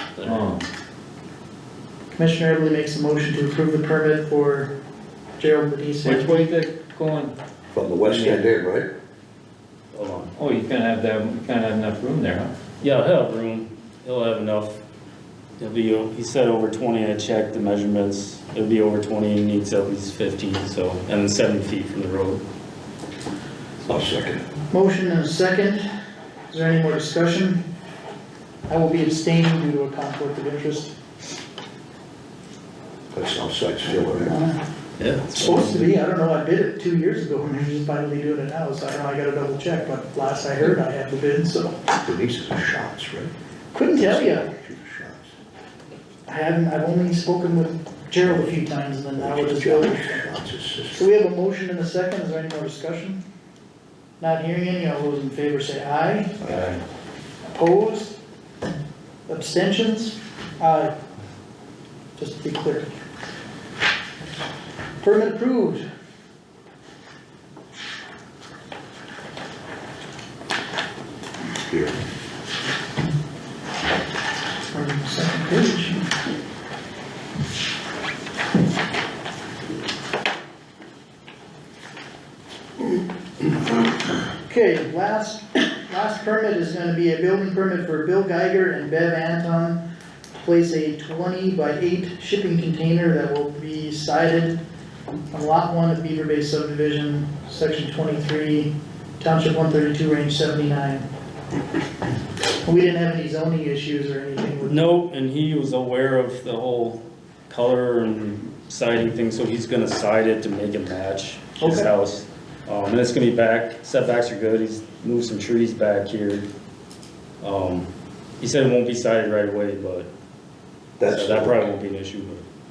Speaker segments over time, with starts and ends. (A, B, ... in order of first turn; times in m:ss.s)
0:00.1-0:00.4 A
0:00.2-0:00.6 B
0:02.1-0:04.7 C
0:05.4-0:06.4 C
0:06.0-0:07.3 B
0:07.7-0:08.9 D
0:08.0-0:08.4 B
0:09.9-0:10.3 A
0:10.4-0:12.5 B
0:12.8-0:14.8 A
0:15.6-0:22.4 A
0:23.9-0:24.4 D
0:24.7-0:25.8 C
0:26.5-0:27.6 C
0:28.7-0:30.9 C
0:33.1-0:34.3 D
0:35.0-0:35.9 A
0:35.4-0:41.8 C
0:42.0-0:43.3 D
0:43.7-0:44.5 C
0:43.9-0:45.3 D
0:46.3-0:50.2 C
0:49.2-0:51.0 D
0:50.9-0:53.2 C
0:54.2-0:56.4 C
0:56.4-0:56.8 D
0:57.4-0:58.2 C
0:59.3-1:00.9 C
1:02.2-1:02.9 C
1:05.0-1:05.8 C
1:11.7-1:11.9 D
1:14.7-1:16.0 C
1:24.4-1:29.8 C
1:30.3-1:34.6 C
1:35.3-1:41.0 C
1:42.6-1:44.9 C
1:44.6-1:56.4 A
1:51.6-1:51.9 C
1:57.4-1:57.9 A
1:58.4-2:00.1 A
2:01.0-2:01.7 D
2:01.0-2:02.4 A